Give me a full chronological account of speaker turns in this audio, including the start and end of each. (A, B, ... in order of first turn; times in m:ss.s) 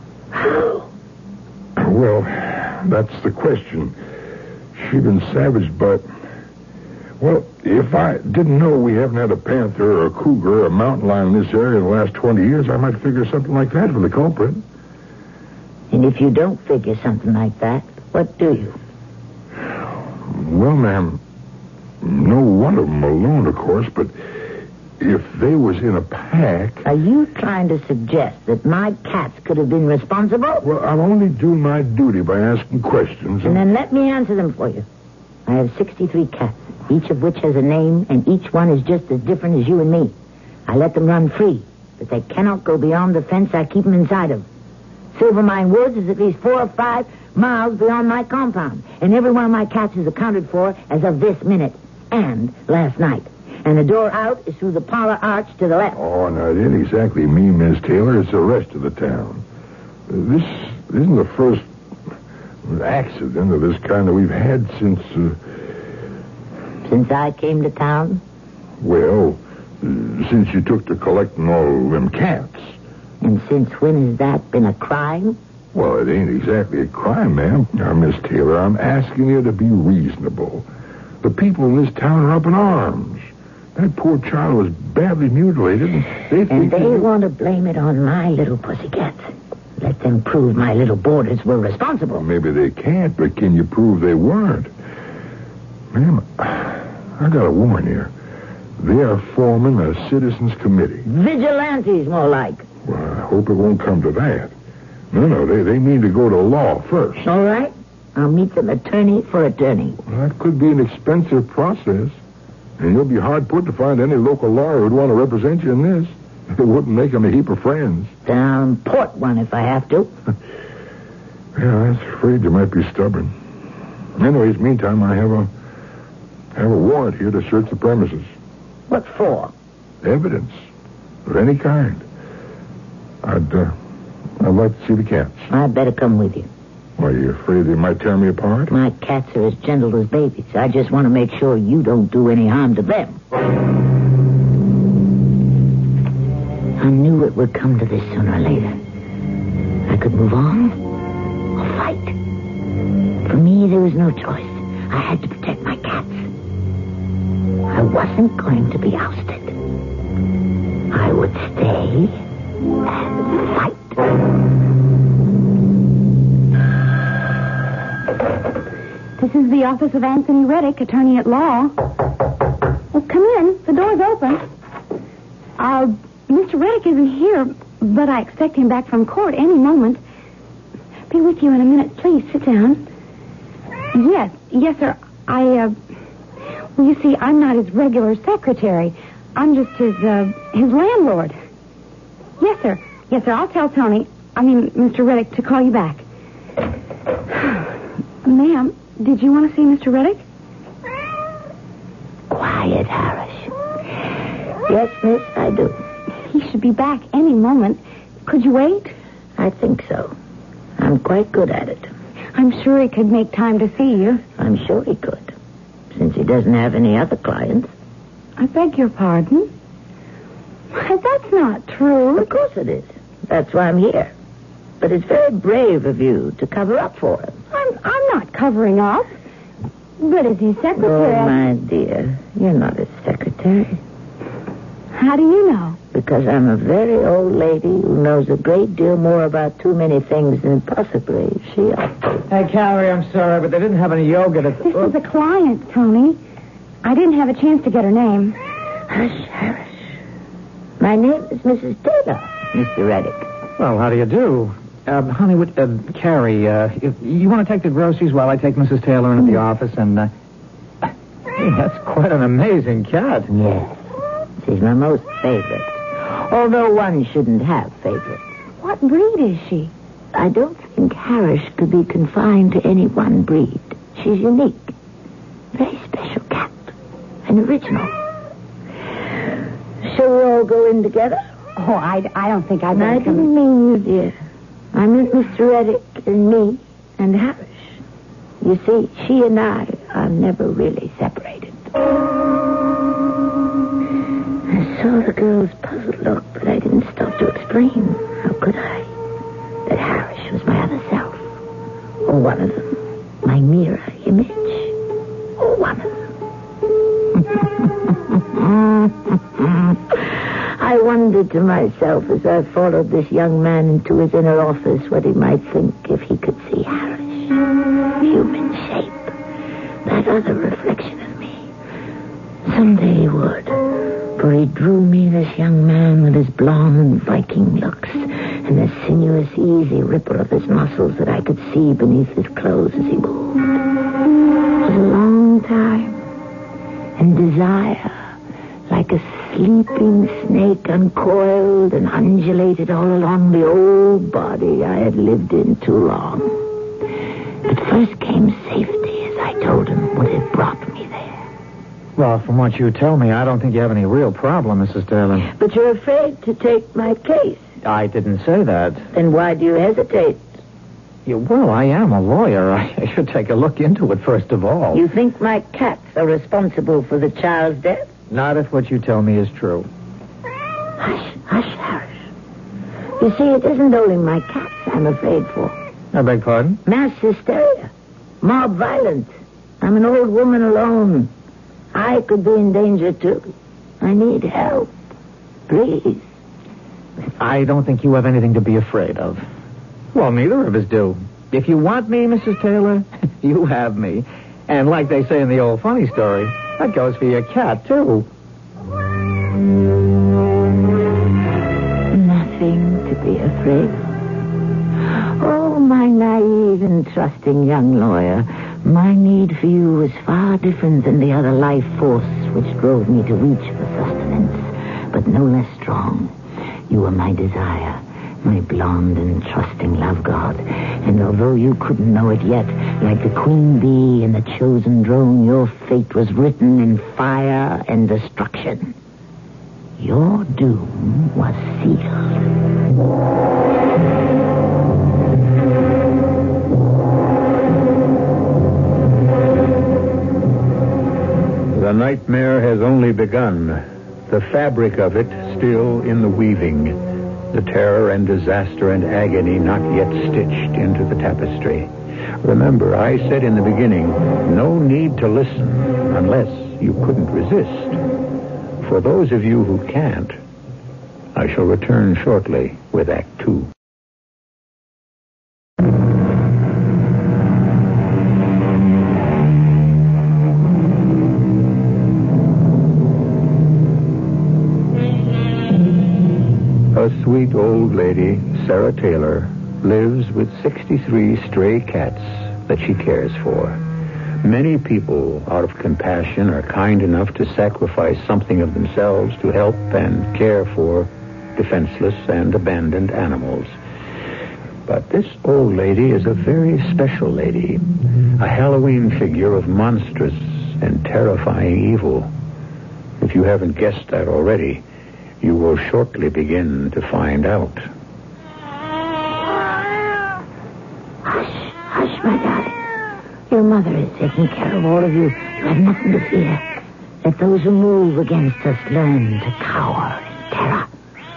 0:00.3-0:00.9 A
0:01.8-0:04.0 B
0:04.7-0:06.0 B
0:07.2-0:14.6 B
0:15.9-0:18.8 A
0:20.3-0:21.2 B
0:22.0-0:24.1 B
0:25.0-0:26.8 B
0:26.8-0:30.6 A
0:30.6-0:33.6 B
0:33.4-0:34.8 A
0:35.4-0:40.1 A
0:40.7-0:44.4 A
0:45.1-0:56.0 A
0:55.9-0:59.4 B
1:00.1-1:01.7 B
1:02.6-1:05.4 B
1:06.8-1:08.2 A
1:08.8-1:12.8 B
1:13.2-1:15.4 A
1:15.7-1:20.6 B
1:21.2-1:27.1 B
1:26.5-1:32.2 A
1:32.1-1:34.7 B
1:35.9-1:38.1 B
1:38.8-1:41.1 B
1:41.1-1:42.6 A
1:42.8-1:44.5 B
1:45.1-1:47.2 B
1:47.2-1:50.0 A
1:50.0-1:52.2 B
1:52.8-1:58.1 B
1:58.2-2:00.1 A
2:01.5-2:03.3 B
2:04.2-2:05.5 B
2:06.5-2:08.3 B
2:08.9-2:09.5 A
2:10.0-2:10.6 B
2:11.2-2:12.0 B
2:13.2-2:13.8 B
2:14.4-2:15.5 B
2:15.5-2:16.5 A
2:17.0-2:18.7 B
2:18.7-2:23.2 A
2:26.8-2:28.8 A
2:29.9-2:30.8 A
2:31.6-2:32.2 A
2:33.2-2:36.3 A
2:37.7-2:39.6 A
2:40.9-2:42.2 A
2:42.8-2:44.0 A
2:49.2-2:51.7 C
2:52.9-2:54.4 C
2:55.6-3:00.0 C
3:01.1-3:02.8 C
3:03.9-3:05.7 C
3:06.8-3:11.4 C
3:12.4-3:16.0 C
3:18.2-3:20.2 C
3:22.3-3:23.5 A
3:24.7-3:25.8 A
3:26.3-3:28.9 C
3:29.4-3:30.1 A
3:30.8-3:31.9 A
3:32.3-3:34.2 C
3:34.4-3:35.3 A
3:35.9-3:37.7 A
3:38.4-3:39.5 C
3:40.7-3:42.3 C
3:42.2-3:44.1 A
3:44.8-3:47.4 A
3:47.5-3:49.1 C
3:50.0-3:51.4 C
3:50.8-3:53.8 A
3:54.9-3:55.8 C
3:55.9-4:02.2 A
4:02.3-4:04.8 D
4:04.6-4:06.2 C
4:06.8-4:08.4 C
4:08.9-4:09.7 A
4:10.8-4:13.2 A
4:13.6-4:20.1 D
4:20.8-4:23.3 D
4:23.3-4:23.8 A
4:24.4-4:28.2 A
4:28.6-4:29.7 C
4:30.1-4:34.7 A
4:35.5-4:36.7 A
4:37.2-4:37.9 A
4:39.8-4:41.2 A
4:41.6-4:43.3 C
4:42.7-4:44.1 A
4:44.7-4:47.7 A
4:48.4-4:51.6 A
4:54.5-4:58.9 A
4:59.6-5:01.2 A
5:02.0-5:04.8 A
5:05.4-5:06.1 A
5:08.2-5:17.4 A
5:18.0-5:19.1 A
5:19.8-5:21.5 A
5:22.4-5:23.6 A
5:24.2-5:33.5 A
5:34.6-5:36.0 A
5:37.0-5:37.9 A
5:38.7-5:46.4 A
5:47.4-5:51.2 A
5:52.0-5:55.3 D
5:55.3-5:57.4 A
5:57.6-5:58.8 D
5:58.9-6:00.2 A
6:01.0-6:04.8 D
6:04.7-6:07.9 A
6:08.1-6:09.7 D
6:10.8-6:11.9 A
6:13.0-6:15.5 A
6:15.9-6:16.6 D
6:16.6-6:17.7 A
6:18.2-6:19.1 A
6:19.6-6:21.1 A
6:21.7-6:24.7 A
6:25.5-6:26.0 A
6:27.2-6:29.2 D
6:29.9-6:38.1 D
6:41.9-6:43.8 A
6:44.9-6:56.1 A
6:56.7-7:08.7 A
7:09.8-7:12.3 A
7:21.5-7:37.8 E
7:38.6-7:40.2 E
7:41.1-7:43.5 E
7:56.7-8:03.6 E
8:04.2-8:13.5 E
8:14.6-8:17.6 E
8:18.2-8:22.1 E
8:23.0-8:24.6 E
8:25.2-8:27.7 E
8:31.0-8:32.6 A
8:33.3-8:36.4 A
8:37.0-8:40.7 A